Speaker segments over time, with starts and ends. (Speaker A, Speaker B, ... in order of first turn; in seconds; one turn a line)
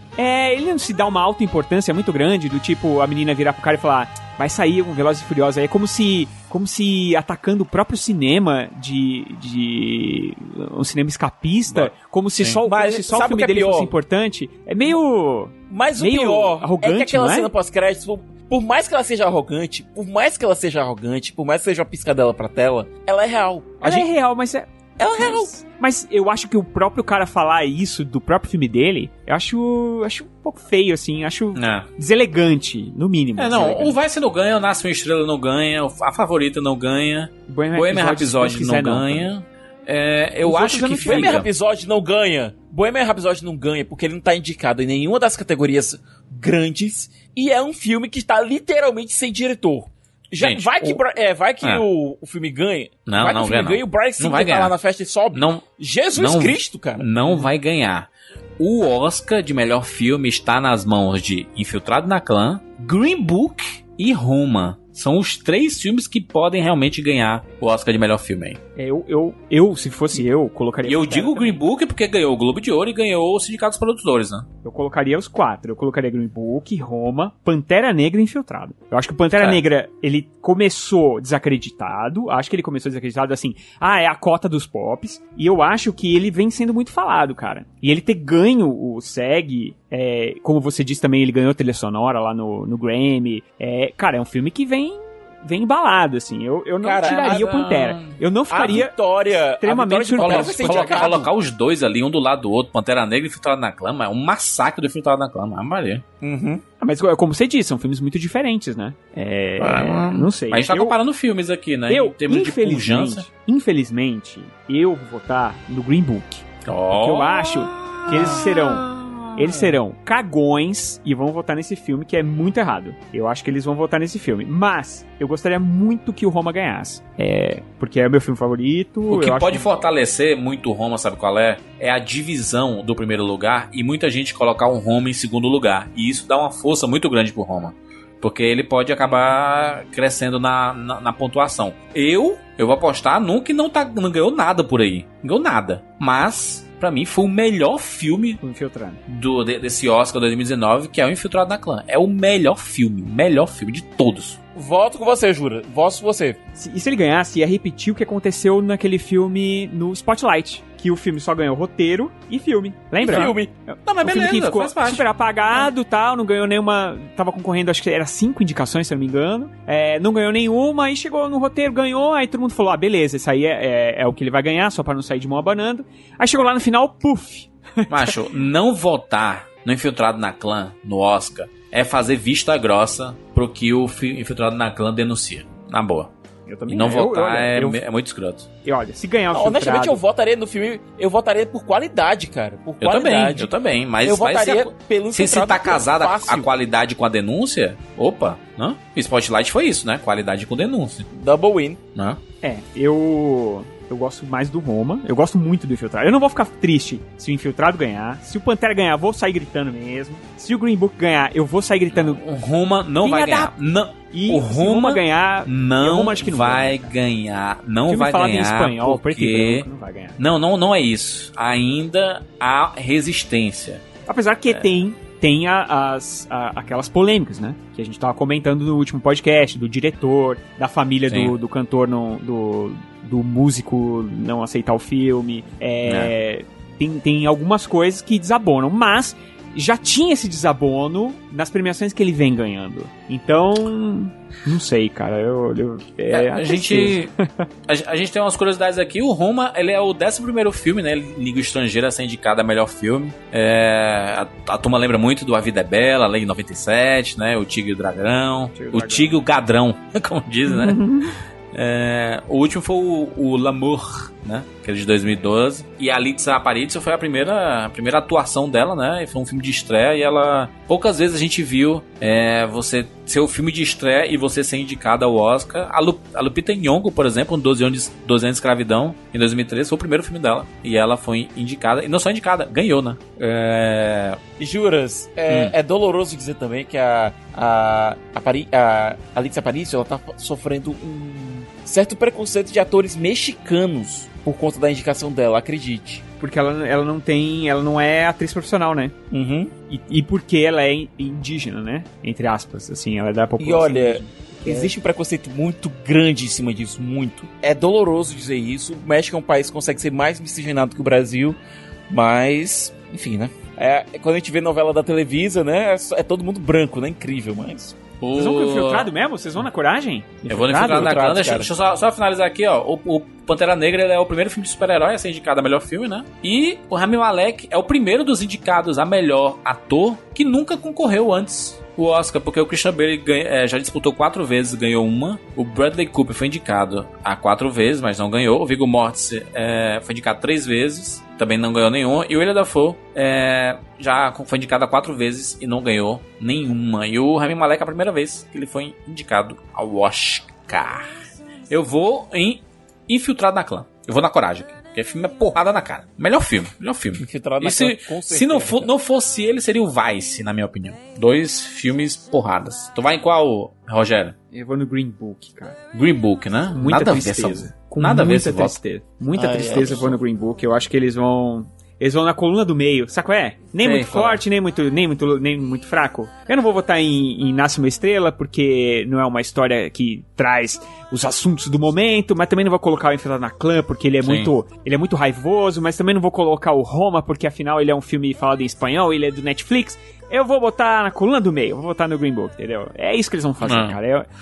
Speaker A: 0.2-17.5
Speaker B: 11.7-12.6
Speaker C: 12.6-13.9
Speaker C: 15.7-24.1
Speaker A: 23.8-34.0
Speaker C: 25.0-25.5
Speaker B: 31.6-31.9
Speaker B: 33.4-41.5
Speaker A: 37.5-39.3
Speaker A: 40.4-41.4
Speaker C: 41.0-57.1
Speaker B: 50.4-51.0
Speaker B: 53.1-54.7
Speaker B: 55.3-55.6
Speaker B: 56.2-58.1
Speaker B: 58.6-68.6
Speaker A: 68.8-71.6
Speaker B: 70.8-74.5
Speaker A: 74.6-98.9
Speaker C: 96.8-97.4
Speaker B: 97.0-98.2
Speaker C: 98.5-101.3
Speaker A: 99.6-101.3
Speaker B: 100.2-106.0
Speaker C: 106.2-106.6
Speaker A: 106.8-111.0
Speaker B: 109.6-113.3
Speaker A: 111.9-129.7
Speaker B: 116.7-119.8
Speaker B: 129.1-148.4
Speaker A: 148.4-149.0
Speaker B: 149.1-154.4
Speaker C: 154.6-156.4
Speaker A: 156.6-178.1
Speaker C: 163.0-163.5
Speaker B: 163.9-165.1
Speaker B: 177.9-186.1
Speaker A: 186.5-187.8
Speaker B: 186.7-188.5
Speaker A: 188.7-190.0
Speaker C: 189.3-193.5
Speaker B: 192.8-201.1
Speaker C: 194.0-196.5
Speaker C: 201.1-201.8
Speaker A: 202.4-212.2
Speaker B: 211.9-219.7
Speaker A: 213.0-213.5
Speaker A: 214.1-216.9
Speaker A: 217.9-220.2
Speaker B: 220.2-223.8
Speaker A: 224.1-247.4
Speaker B: 231.1-231.3
Speaker B: 235.9-236.1
Speaker B: 246.1-247.1
Speaker B: 247.7-284.2
Speaker A: 258.5-259.2
Speaker A: 260.5-261.2
Speaker C: 284.4-296.0
Speaker A: 296.2-298.9
Speaker C: 299.1-299.5
Speaker A: 299.7-304.7
Speaker C: 303.4-317.8
Speaker B: 318.0-318.9
Speaker A: 318.1-321.1
Speaker B: 320.3-350.9
Speaker C: 320.6-321.5
Speaker B: 351.5-364.1
Speaker C: 357.0-358.7
Speaker A: 364.3-365.6
Speaker B: 365.7-368.6
Speaker A: 366.5-394.1
Speaker C: 369.2-369.9
Speaker B: 369.2-369.9
Speaker B: 373.6-374.2
Speaker B: 384.0-384.3
Speaker B: 393.4-393.8